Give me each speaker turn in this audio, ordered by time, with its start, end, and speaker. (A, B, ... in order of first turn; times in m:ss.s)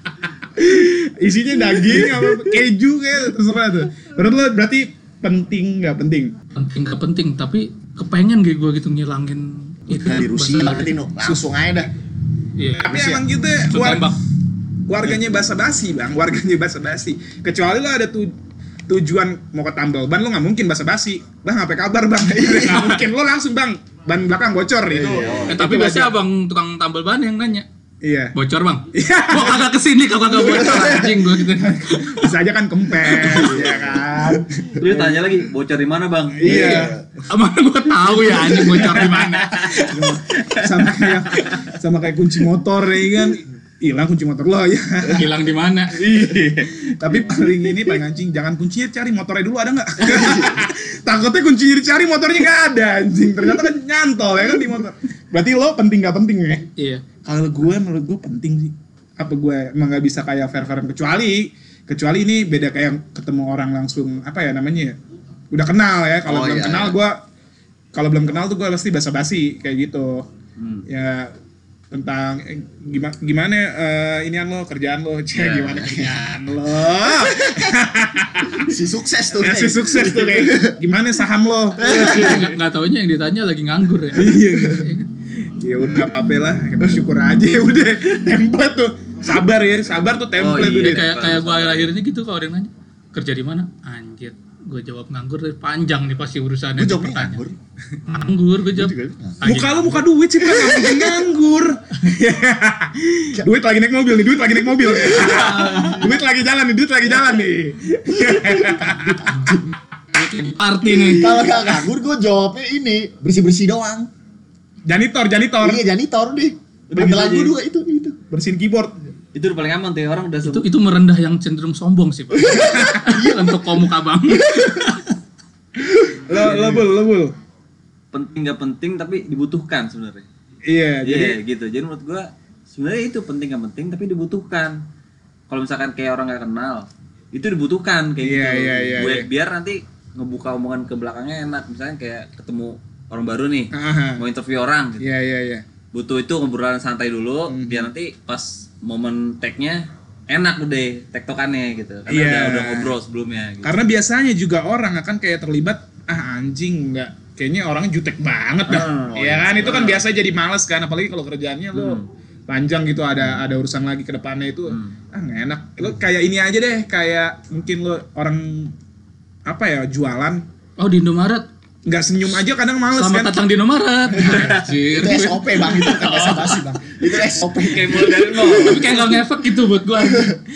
0:00.6-0:06.3 A
0:06.5-0:10.9 B
0:09.9-0:11.9 C
0:12.6-0:14.2 B
0:12.8-0:14.1 A
0:12.9-0:13.2 C
0:14.9-0:18.3 A
0:18.9-0:26.1 A
0:22.3-0:23.0 C
0:24.8-0:25.6 C
0:25.1-0:25.5 D
0:25.5-0:27.6 B
0:28.0-0:28.3 A
0:28.3-0:32.3 B
0:28.9-0:29.7 A
0:30.3-0:35.1 A
0:33.0-0:33.5 B
0:33.1-0:35.1 C
0:34.8-0:36.9 D
0:36.4-0:37.0 A
0:36.4-0:37.2 C
0:37.3-0:40.0 B
0:38.4-0:41.6 D
0:38.4-0:45.3 A
0:45.0-0:46.2 B
0:45.9-0:56.7 A
0:56.8-0:57.0 B
0:57.2-1:05.0 A
1:05.5-1:07.2 A
1:06.2-1:07.0 C
1:07.9-1:10.3 A
1:10.6-1:10.8 D
1:10.9-1:11.3 A
1:11.9-1:18.7 A
1:15.3-1:16.0 D
1:17.3-1:17.7 C
1:18.6-1:20.8 C
1:19.3-1:22.5 A
1:21.8-1:25.1 B
1:21.8-1:22.5 C
1:24.1-1:31.0 A
1:30.4-1:31.9 D
1:30.6-1:37.4 B
1:36.8-1:37.6 C
1:38.1-1:40.0 B
1:38.6-1:39.8 C
1:39.4-1:49.5 A
1:40.4-1:41.3 C
1:44.8-1:46.0 C
1:45.7-1:46.0 B
1:48.3-1:49.7 C
1:50.1-1:51.5 B
1:50.9-1:54.1 C
1:54.9-1:55.8 A
1:55.6-1:58.2 C
1:56.9-1:57.6 D
1:58.3-1:58.9 A
1:59.3-2:00.7 D
2:00.4-2:05.1 B
2:02.4-2:03.8 C
2:02.6-2:03.0 A
2:04.3-2:04.8 C
2:06.0-2:07.3 A
2:06.4-2:06.7 D
2:08.1-2:10.2 D
2:10.7-2:11.4 A
2:11.0-2:14.8 D
2:15.5-2:25.0 D
2:18.2-2:19.3 A
2:23.7-2:24.2 A
2:25.0-2:25.6 A
2:25.9-2:33.8 D
2:27.5-2:27.9 A
2:32.1-2:32.9 A
2:33.6-2:48.7 A
2:38.7-2:40.0 D
2:41.7-2:42.0 D
2:43.2-2:43.4 D
2:44.7-2:45.0 D
2:49.5-2:50.4 A
2:50.8-2:51.4 B
2:51.8-2:53.4 A
2:52.9-2:56.6 B
2:54.2-2:59.0 C
2:57.6-2:59.2 D
2:58.5-3:00.4 B